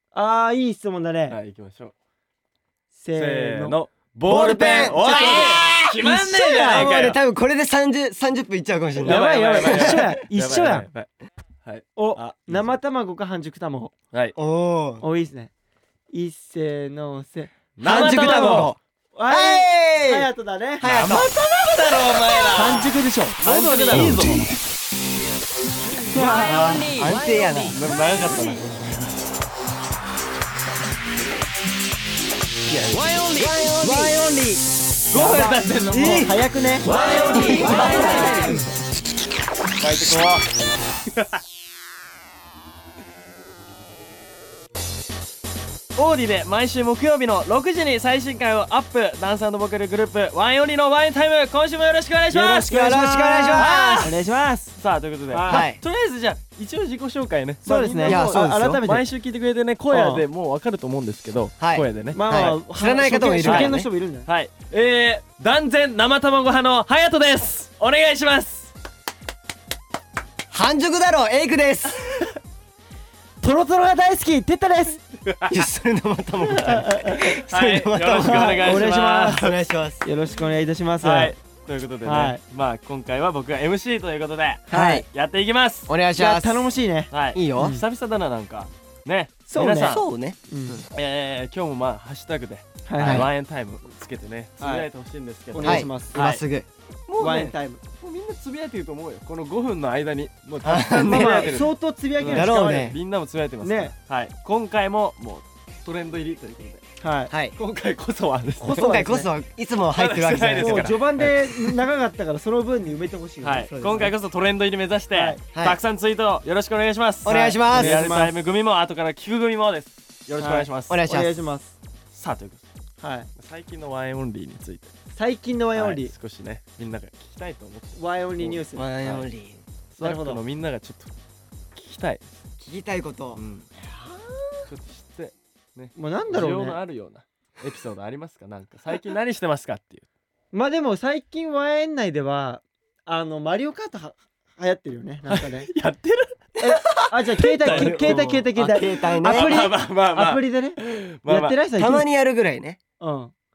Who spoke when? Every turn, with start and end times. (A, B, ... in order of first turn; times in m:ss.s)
0:00.1-0:01.4 A
0:01.3-0:01.9 B
0:02.9-0:03.8 A
0:03.2-0:07.2 B
0:04.2-0:10.1 C
0:04.7-0:06.9 A
0:09.0-0:11.1 B
0:09.0-0:10.8 A
0:11.6-0:12.8 B
0:11.9-0:13.9 A
0:14.4-0:15.0 C
0:15.0-0:15.5 A
0:16.1-0:20.8 A
0:17.8-0:18.7 B
0:17.8-0:18.8 C
0:19.3-0:20.3 C
0:20.8-0:22.8 C
0:20.8-0:24.6 B
0:22.5-0:24.4 A
0:23.4-0:24.5 C
0:26.1-0:26.9 A
0:26.1-0:27.1 B
0:26.2-0:27.8 C
0:27.6-0:29.2 B
0:32.7-0:33.7 B
0:33.4-0:34.2 C
0:33.4-0:34.6 A
0:35.1-0:38.4 B
0:35.1-0:38.7 A
0:36.9-0:38.6 C
0:39.8-0:40.5 B
0:41.1-0:41.4 B
0:45.9-0:52.8 B
0:52.3-0:54.7 A
0:52.7-0:54.1 C
0:53.5-0:54.2 B
0:54.7-1:02.2 B
0:55.3-0:55.6 A
0:55.5-0:55.8 C
0:57.6-0:59.0 A
0:58.0-0:58.8 C
0:59.9-1:00.2 A
1:01.6-1:03.9 C
1:02.1-1:04.3 A
1:03.4-1:08.7 B
1:10.5-1:12.0 C
1:13.4-1:15.0 A
1:15.2-1:15.6 B
1:15.4-1:20.0 C
1:16.7-1:19.5 B
1:16.9-1:17.3 A
1:18.2-1:19.4 A
1:20.0-1:21.3 A
1:21.0-1:25.9 B
1:22.0-1:22.4 A
1:24.7-1:25.0 A
1:24.7-1:25.0 C
1:25.9-1:26.7 C
1:26.1-1:27.8 A
1:27.1-1:30.1 B
1:27.3-1:27.8 C
1:29.5-1:30.8 A
1:29.8-1:30.8 C
1:30.9-1:36.4 B
1:32.8-1:33.3 A
1:33.0-1:33.3 C
1:34.6-1:34.9 A
1:35.5-1:36.2 A
1:35.6-1:36.7 C
1:37.1-1:46.8 B
1:37.2-1:37.8 A
1:40.6-1:41.6 C
1:41.0-1:42.9 A
1:42.2-1:43.0 C
1:43.6-1:43.9 A
1:47.0-1:47.3 A
1:47.3-1:47.6 C
1:47.6-1:48.8 B
1:48.6-1:49.3 A
1:48.8-1:50.9 C
1:49.9-1:51.8 B
1:50.6-1:54.1 A
1:53.4-2:01.0 B
1:53.7-1:54.1 C
1:55.1-1:55.4 A
1:55.5-1:55.8 C
1:57.2-1:58.0 C
1:57.2-1:58.3 A
2:00.4-2:01.7 A
2:00.9-2:01.4 C
2:02.1-2:02.7 B
2:03.0-2:03.3 A
2:03.4-2:04.9 B
2:05.1-2:06.1 A
2:05.8-2:09.2 B
2:07.9-2:08.9 A
2:08.7-2:09.6 C
2:09.9-2:11.1 B
2:10.0-2:10.4 A
2:11.7-2:12.4 B
2:12.6-2:14.7 C
2:13.4-2:13.7 B
2:14.7-2:20.0 B
2:15.9-2:16.8 A
2:20.5-2:25.7 A
2:25.3-2:28.3 B
2:26.6-2:32.1 A
2:27.6-2:29.6 C
2:29.2-2:31.6 B
2:31.8-2:32.8 C
2:33.0-2:33.3 A